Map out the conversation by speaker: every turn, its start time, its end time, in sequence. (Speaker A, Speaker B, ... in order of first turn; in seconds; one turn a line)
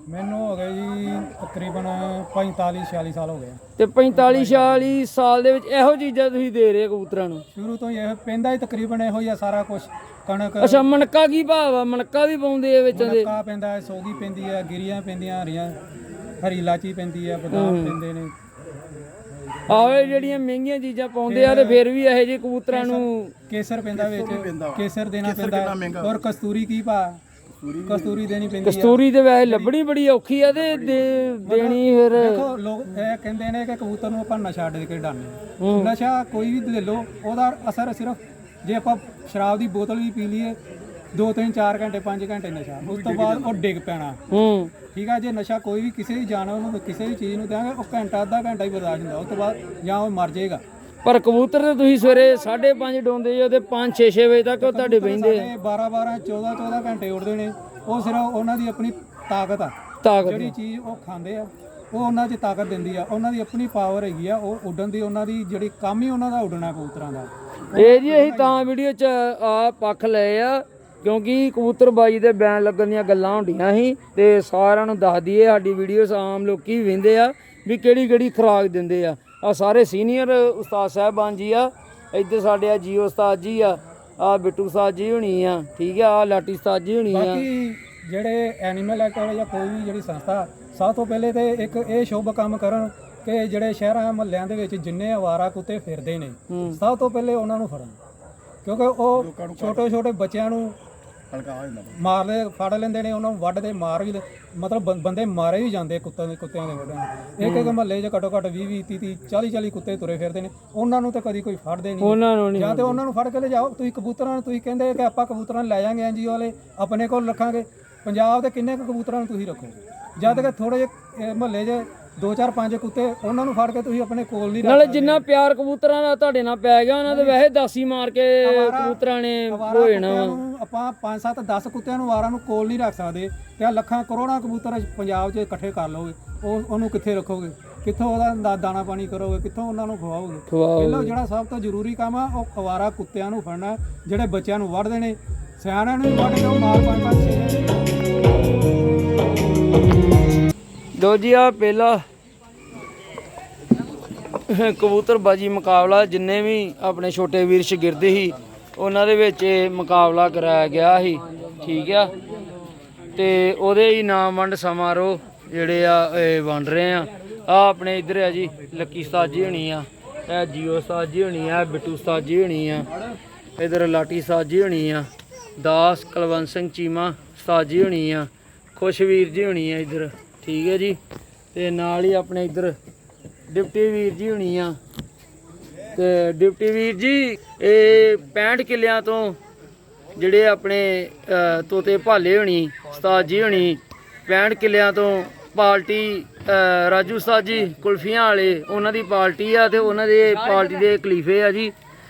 Speaker A: 0.1-3.6
Speaker B: 3.8-7.4
Speaker A: 4.1-4.7
Speaker A: 7.5-10.9
Speaker B: 10.6-13.3
Speaker A: 12.9-15.8
Speaker A: 16.4-18.3
Speaker B: 17.5-18.0
Speaker B: 19.7-23.3
Speaker A: 19.7-20.1
Speaker A: 21.3-21.8
Speaker A: 22.7-27.2
Speaker C: 23.9-26.1
Speaker C: 27.6-28.2
Speaker A: 27.9-29.7
Speaker B: 28.6-32.5
Speaker C: 30.4-31.3
Speaker A: 31.4-40.6
Speaker B: 35.6-35.9
Speaker A: 41.1-44.2
Speaker C: 42.8-43.6
Speaker B: 44.3-44.7
Speaker A: 44.9-50.6
Speaker B: 51.0-55.5
Speaker A: 54.6-68.6
Speaker B: 60.0-60.5
Speaker B: 67.7-87.4
Speaker A: 87.1-98.0
Speaker B: 96.5-96.8
Speaker A: 98.6-100.8
Speaker C: 99.1-99.9
Speaker C: 101.3-102.0
Speaker A: 102.0-125.2
Speaker B: 107.4-107.7
Speaker B: 112.0-113.0
Speaker B: 124.6-130.4
Speaker A: 127.0-127.4
Speaker A: 128.4-147.7
Speaker B: 140.5-141.1
Speaker B: 151.0-152.0
Speaker B: 154.5-162.1
Speaker B: 163.2-172.9
Speaker B: 173.6-175.1
Speaker B: 175.6-181.0
Speaker B: 181.5-182.7
Speaker B: 183.5-184.8
Speaker B: 185.9-189.4
Speaker B: 190.2-201.7